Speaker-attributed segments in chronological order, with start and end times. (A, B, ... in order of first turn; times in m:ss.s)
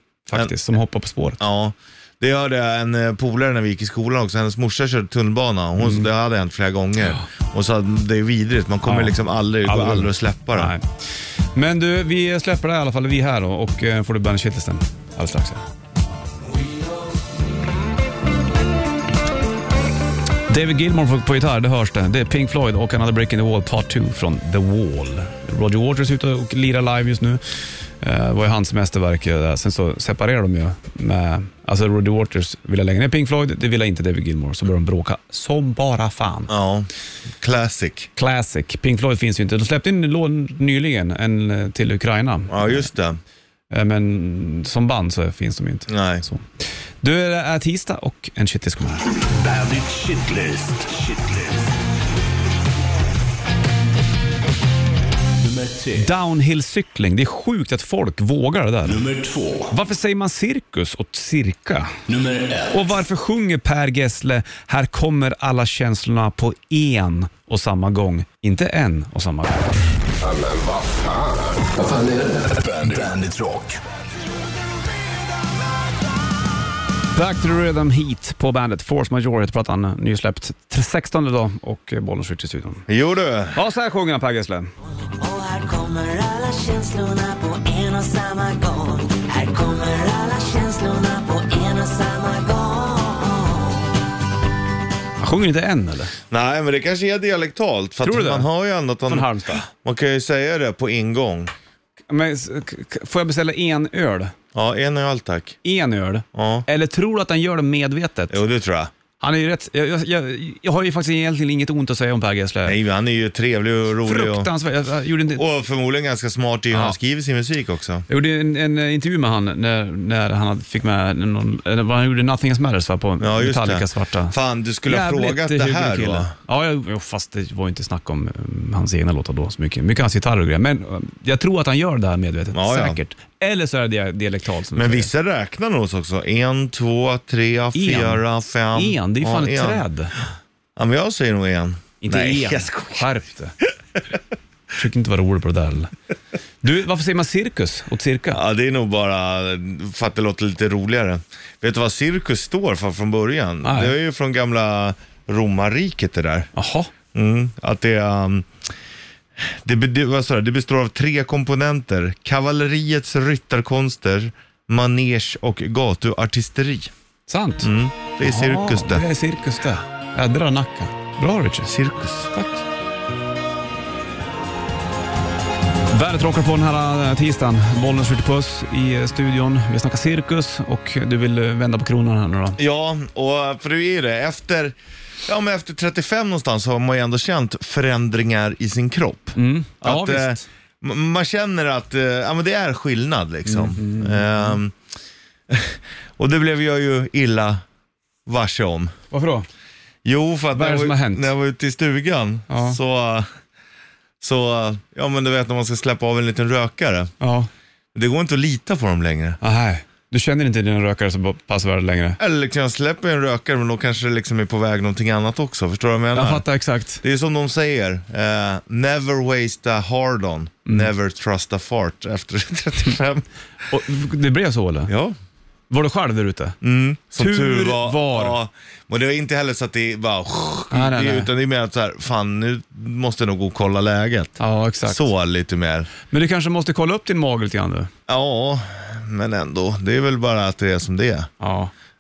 0:00.3-0:01.4 A
0:01.4-0:10.7 B
0:05.8-0:06.1 A
0:08.8-0:10.9 A
0:11.6-0:15.6 A
0:20.5-0:36.5 A
0:36.5-0:38.1 B
0:38.2-0:42.9 A
0:42.5-0:43.2 B
0:43.7-0:46.4 A
0:45.9-0:46.2 B
0:47.0-0:49.1 A
0:49.3-0:51.8 C
0:55.4-0:56.1 C
0:56.0-0:59.0 A
0:58.8-0:59.7 C
0:59.7-1:02.0 A
1:02.1-1:02.8 C
1:02.7-1:09.6 A
1:10.2-1:13.8 C
1:17.2-1:22.9 A
1:22.9-1:23.6 B
1:23.5-1:24.7 A
1:25.1-1:33.9 D
1:35.2-1:36.1 A
1:36.3-1:41.5 B
1:38.0-1:38.5 A
1:39.1-1:39.6 A
1:42.1-1:44.3 A
1:44.5-1:45.6 B
1:45.6-1:48.4 A
1:46.3-1:46.7 B
1:48.3-1:48.9 B
1:49.2-1:52.8 A
1:52.6-1:54.5 B
1:54.0-1:55.4 A
1:55.4-1:58.0 B
1:58.1-2:04.4 A
2:03.2-2:06.3 B
2:04.9-2:15.1 A
2:12.5-2:13.0 B
2:14.8-2:19.8 B
2:17.7-2:18.2 A
2:18.7-2:20.1 A
2:20.8-2:23.1 B
2:22.0-2:23.6 A
2:23.6-2:24.2 B
2:24.7-2:25.9 A
2:26.6-2:28.4 A
2:28.3-2:36.5 B
2:33.6-2:34.0 A
2:36.6-2:36.9 A
2:37.1-2:38.5 B
2:39.4-2:46.9 B
2:47.3-2:51.7 A
2:47.6-2:49.1 B
2:51.6-2:52.3 B
2:52.3-2:52.6 A
2:55.9-3:02.6 A
3:02.6-3:04.8 B
3:05.3-3:14.8 B
3:09.4-3:10.4 A
3:13.5-3:14.6 A
3:15.5-3:17.6 B
3:18.3-3:18.9 B
3:19.1-3:19.5 A
3:20.0-3:23.3 B
3:20.5-3:21.3 A
3:22.5-3:22.8 A
3:24.2-3:27.1 B
3:27.2-3:27.5 A
3:27.9-3:29.4 B
3:29.4-3:32.2 A
3:32.2-3:36.4 B
3:36.1-3:37.0 A
3:37.0-3:43.2 B
3:43.7-3:44.9 A
3:44.9-3:45.2 B
3:45.7-3:46.6 A
3:46.6-3:55.9 B
3:47.2-3:48.4 A
3:50.7-3:51.3 A
3:54.4-3:55.1 A
3:56.1-3:57.9 A
3:58.1-4:01.3 B
4:01.4-4:01.7 A